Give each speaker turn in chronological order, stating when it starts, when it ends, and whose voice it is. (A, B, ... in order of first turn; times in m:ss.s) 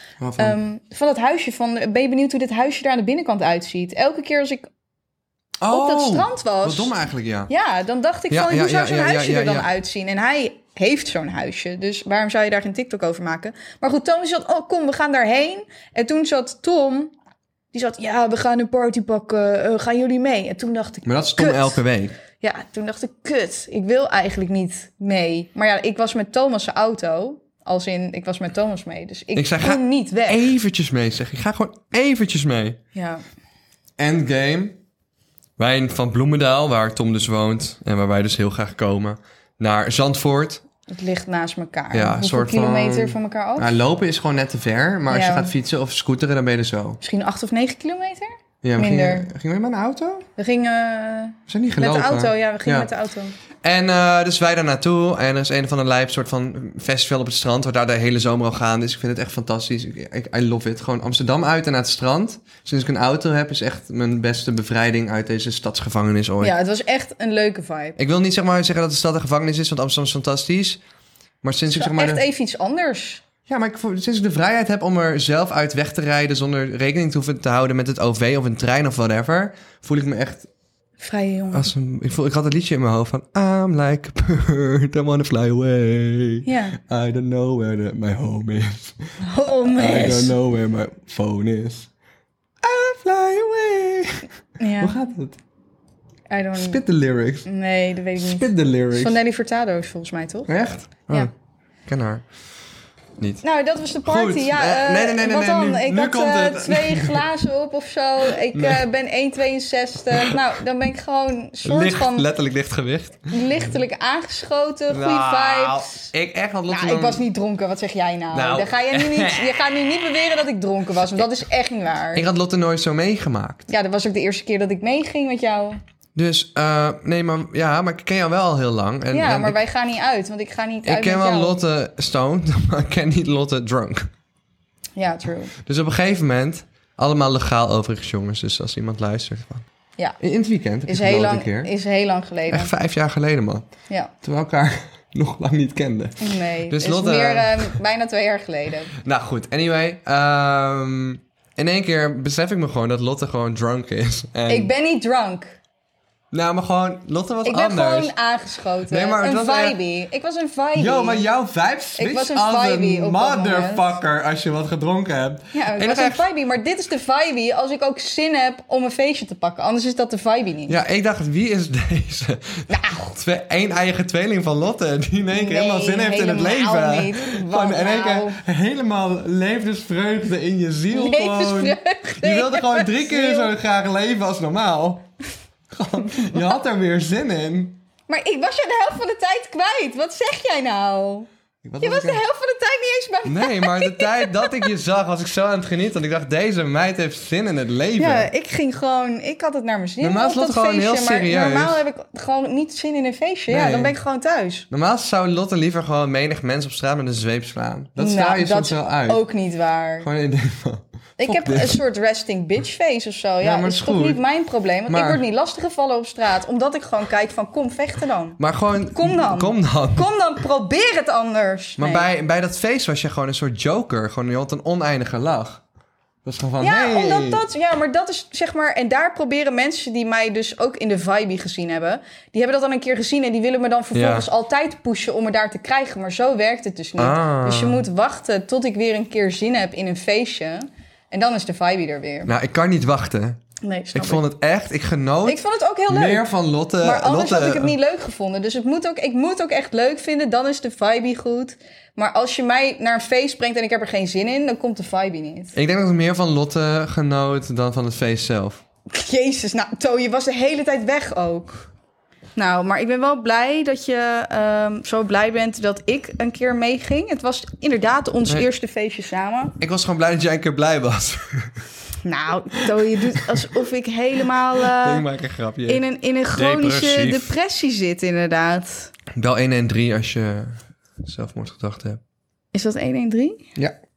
0:00.2-0:00.6 A
0:00.4-0:04.7 B
0:05.6-0:07.5 A
0:05.7-0:06.9 B
0:07.5-0:17.1 B
0:08.3-0:09.7 A
0:17.7-0:21.8 B
0:21.0-0:22.2 A
0:22.4-0:30.4 B
0:29.4-0:32.8 A
0:32.9-0:33.2 B
0:34.0-0:34.8 A
0:35.6-0:40.6 A
0:40.9-0:43.7 B
0:41.9-0:47.0 A
0:45.1-0:45.5 B
0:47.0-0:49.3 B
0:48.6-0:50.3 A
0:50.4-0:53.3 B
0:51.5-0:52.9 A
0:53.6-1:06.6 A
1:06.4-1:08.0 B
1:08.0-1:10.8 A
1:11.4-1:12.2 A
1:11.7-1:13.2 B
1:13.5-1:20.5 A
1:21.0-1:21.7 B
1:21.5-1:29.1 A
1:26.4-1:26.8 B
1:29.2-1:30.4 B
1:29.7-1:31.9 A
1:32.6-1:34.3 A
1:34.6-1:35.0 B
1:34.8-1:35.4 A
1:36.3-1:36.8 B
1:36.6-1:37.5 A
1:37.4-1:40.5 B
1:38.2-1:39.2 A
1:40.5-1:41.3 A
1:41.9-1:42.2 A
1:43.4-1:52.3 B
1:44.0-1:47.3 A
1:48.3-1:48.8 A
1:51.6-1:53.7 A
1:53.3-1:56.1 B
1:54.9-1:57.2 A
1:56.7-2:02.3 B
1:58.3-1:59.6 A
2:02.1-2:03.7 A
2:03.7-2:05.8 B
2:06.2-2:09.6 A
2:09.1-2:11.6 B
2:10.8-2:14.1 A
2:15.0-2:15.5 B
2:15.6-2:19.7 A
2:20.2-2:21.7 A
2:20.9-2:22.7 B
2:22.5-2:23.7 A
2:24.2-2:27.8 A
2:26.2-2:28.9 B
2:28.9-2:34.7 A
2:34.5-2:35.6 B
2:36.3-2:38.1 A
2:37.4-2:41.2 B
2:38.9-2:39.8 A
2:40.8-2:46.3 A
2:42.0-2:44.0 B
2:45.5-2:50.8 B
2:50.7-3:05.1 A
2:52.7-2:53.1 B
2:55.3-2:58.4 B
3:00.9-3:03.5 B
3:05.7-3:07.8 A
3:06.2-3:06.5 B
3:08.1-3:11.3 B
3:11.6-3:12.2 A
3:11.8-3:14.7 B
3:13.2-3:18.3 A
3:18.0-3:24.7 B
3:20.0-3:21.8 A
3:23.5-3:24.0 A
3:24.7-3:29.2 A
3:28.0-3:30.1 B
3:30.0-3:31.8 A
3:31.2-3:38.4 B
3:33.4-3:34.2 A
3:34.9-3:35.2 A
3:38.4-3:40.1 A
3:38.9-3:42.1 B
3:41.8-3:45.6 A
3:46.2-3:47.4 A
3:46.6-4:02.3 B
3:53.9-3:54.3 A
3:57.0-3:57.8 A
4:02.3-4:03.4 A
4:03.6-4:04.2 B
4:03.9-4:07.8 A
4:05.3-4:15.6 B
4:15.5-4:18.6 A
4:18.9-4:21.7 B
4:22.4-4:29.6 B
4:29.6-4:31.6 A
4:32.0-4:35.1 B
4:32.7-4:33.6 A
4:34.6-4:37.3 A
4:35.7-4:38.9 B
4:39.1-4:42.0 A
4:42.5-4:43.5 B